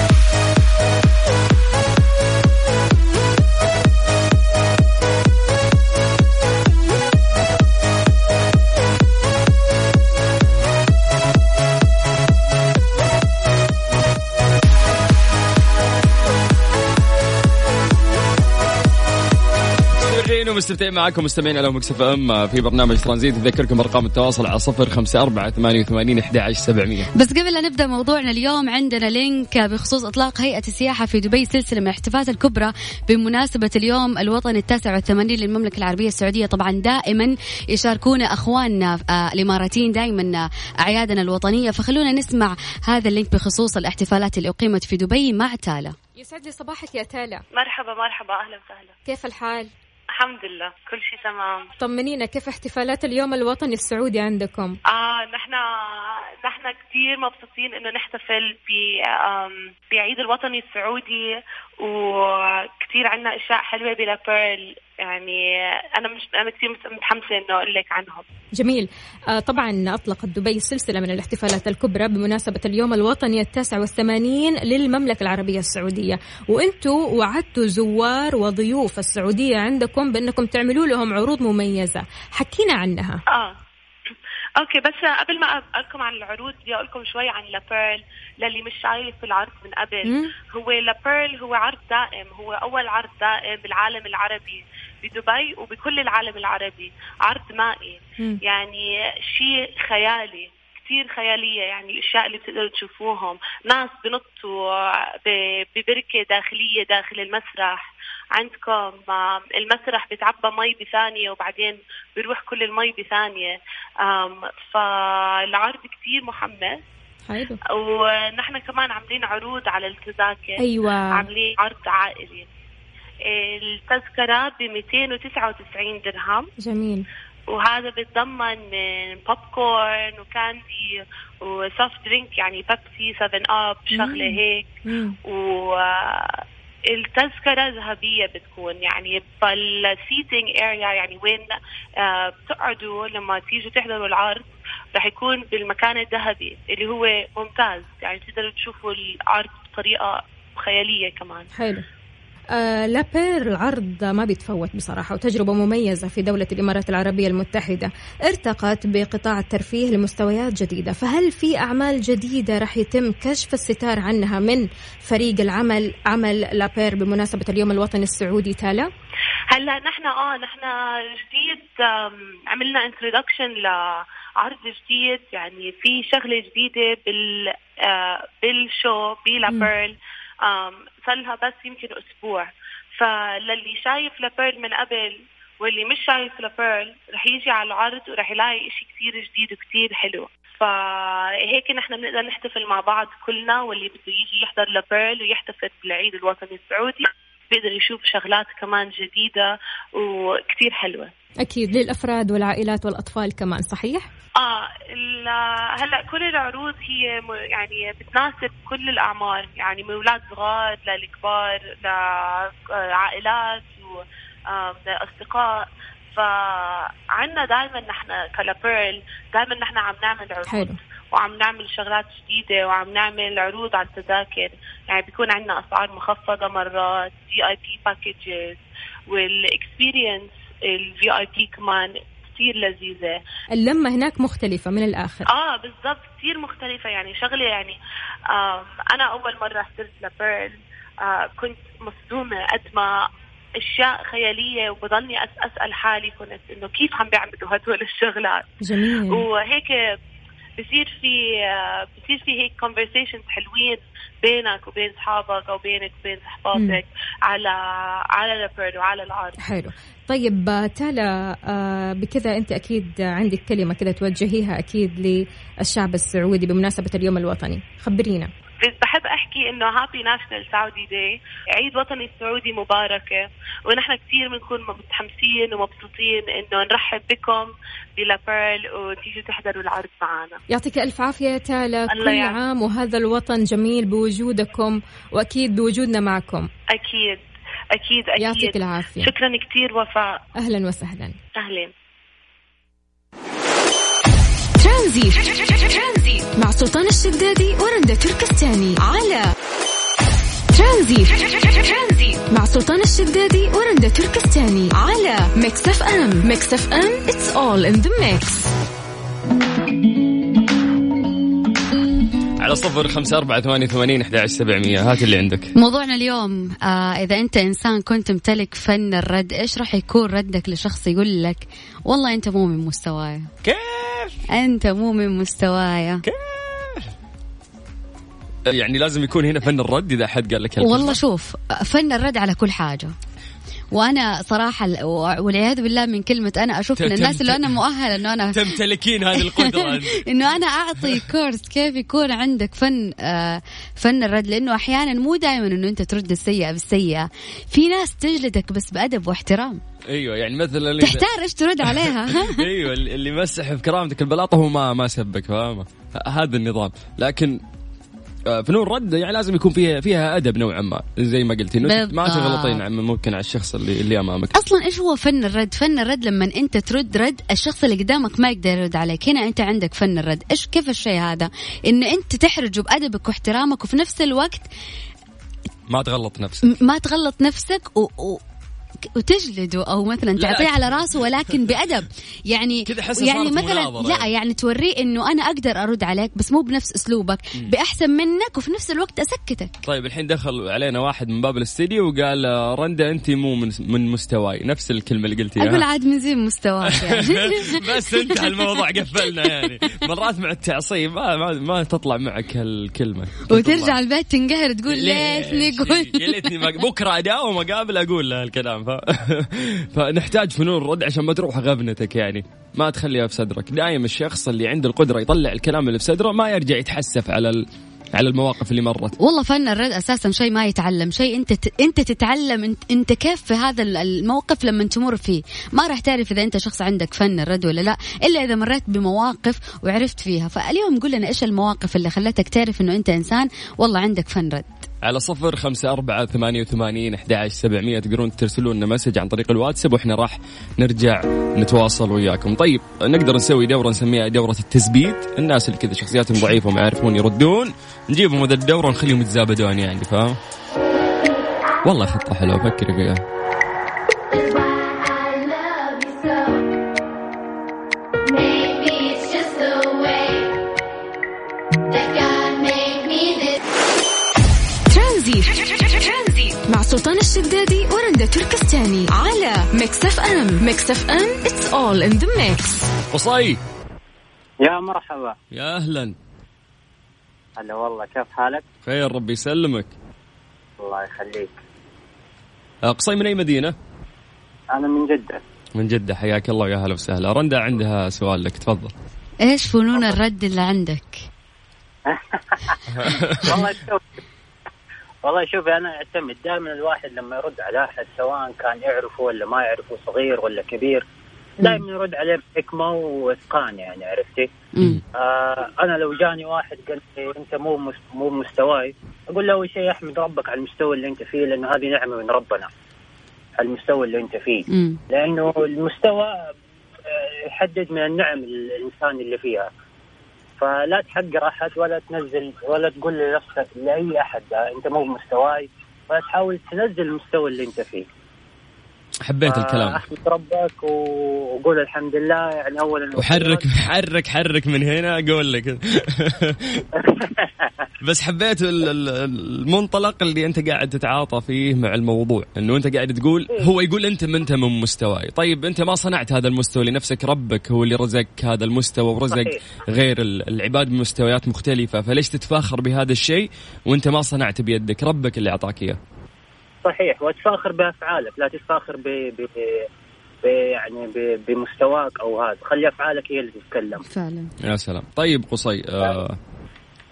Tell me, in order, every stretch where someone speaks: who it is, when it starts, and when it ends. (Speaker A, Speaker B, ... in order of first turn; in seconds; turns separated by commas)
Speaker A: 20.0-27.1, Speaker B: 27.1-46.0, Speaker C: 46.2-47.4, Speaker D: 47.5-49.0, Speaker C: 49.1-49.7, Speaker D: 50.1-51.7, Speaker C: 51.8-54.8, Speaker D: 54.9-68.2, Speaker C: 68.6-83.2, Speaker D: 83.3-83.6, Speaker D: 84.6-116.8, Speaker C: 90.1-90.3, Speaker C: 117.3-117.6, Speaker D: 117.7-120.6, Speaker C: 120.6-121.3, Speaker D: 121.1-122.5, Speaker D: 123.2-126.5, Speaker C: 126.6-127.0, Speaker D: 127.5-134.7, Speaker C: 133.9-135.2, Speaker D: 135.2-141.5, Speaker D: 142.0-151.5, Speaker C: 151.6-151.8, Speaker C: 152.5-168.9, Speaker D: 169.5-201.1, Speaker C: 201.4-204.1, Speaker D: 204.4-233.2, Speaker C: 220.5-220.8, Speaker C: 233.6-235.3, Speaker D: 235.3-237.8, Speaker D: 238.3-243.1, Speaker D: 243.6-248.5, Speaker C: 248.6-249.3, Speaker D: 249.1-249.9, Speaker D: 250.6-259.4, Speaker C: 259.4-268.3, Speaker D: 268.6-280.4, Speaker C: 280.5-286.5, Speaker D: 281.9-282.4, Speaker D: 286.7-290.2, Speaker C: 288.2-289.1, Speaker C: 290.4-291.2, Speaker D: 291.4-291.7, Speaker E: 294.6-299.3, Speaker E: 300.5-308.5, Speaker A: 312.4-315.5, Speaker B: 315.6-323.3, Speaker A: 323.4-324.2, Speaker B: 324.3-326.0, Speaker A: 326.0-326.9, Speaker A: 328.5-331.0, Speaker B: 330.6-332.9, Speaker B: 333.7-338.5, Speaker A: 336.8-337.5, Speaker A: 338.3-340.1, Speaker B: 339.1-349.6, Speaker A: 349.9-351.1, Speaker B: 350.8-352.5, Speaker A: 351.7-357.4, Speaker A: 358.3-364.3, Speaker B: 361.6-362.6, Speaker B: 364.3-374.5, Speaker A: 375.7-376.5, Speaker B: 376.4-378.2, Speaker B: 378.8-389.5, Speaker A: 380.2-380.6, Speaker A: 382.7-384.1, Speaker A: 389.6-395.6, Speaker B: 395.4-399.9, Speaker A: 396.7-403.8, Speaker B: 403.3-406.5, Speaker A: 404.7-419.0, Speaker B: 419.0-434.7, Speaker A: 434.8-450.2, Speaker A: 451.6-453.0, Speaker B: 454.1-456.4, Speaker B: 458.1-460.3, Speaker B: 461.7-463.4, Speaker E: 464.7-472.7, Speaker A: 472.9-473.4, Speaker F: 474.4-475.2, Speaker A: 475.3-476.0, Speaker F: 477.4-478.4, Speaker A: 478.6-479.7, Speaker F: 480.6-481.4, Speaker A: 482.6-483.6, Speaker F: 484.5-485.2, Speaker A: 485.6-488.7, Speaker B: 489.2-491.1, Speaker F: 491.9-493.8, Speaker A: 492.7-493.4, Speaker F: 495.1-500.8, Speaker F: 501.4-504.3, Speaker F: 504.9-512.5, Speaker F: 513.4-516.3, Speaker B: 514.5-514.8, Speaker F: 516.9-519.5, Speaker F: 520.4-527.9, Speaker A: 529.0-529.8, Speaker F: 529.2-533.5, Speaker A: 533.0-536.6, Speaker F: 536.8-537.5, Speaker A: 537.8-555.8, Speaker F: 549.1-549.4, Speaker F: 556.6-559.3, Speaker F: 560.2-563.8, Speaker B: 563.9-564.3, Speaker A: 564.4-566.2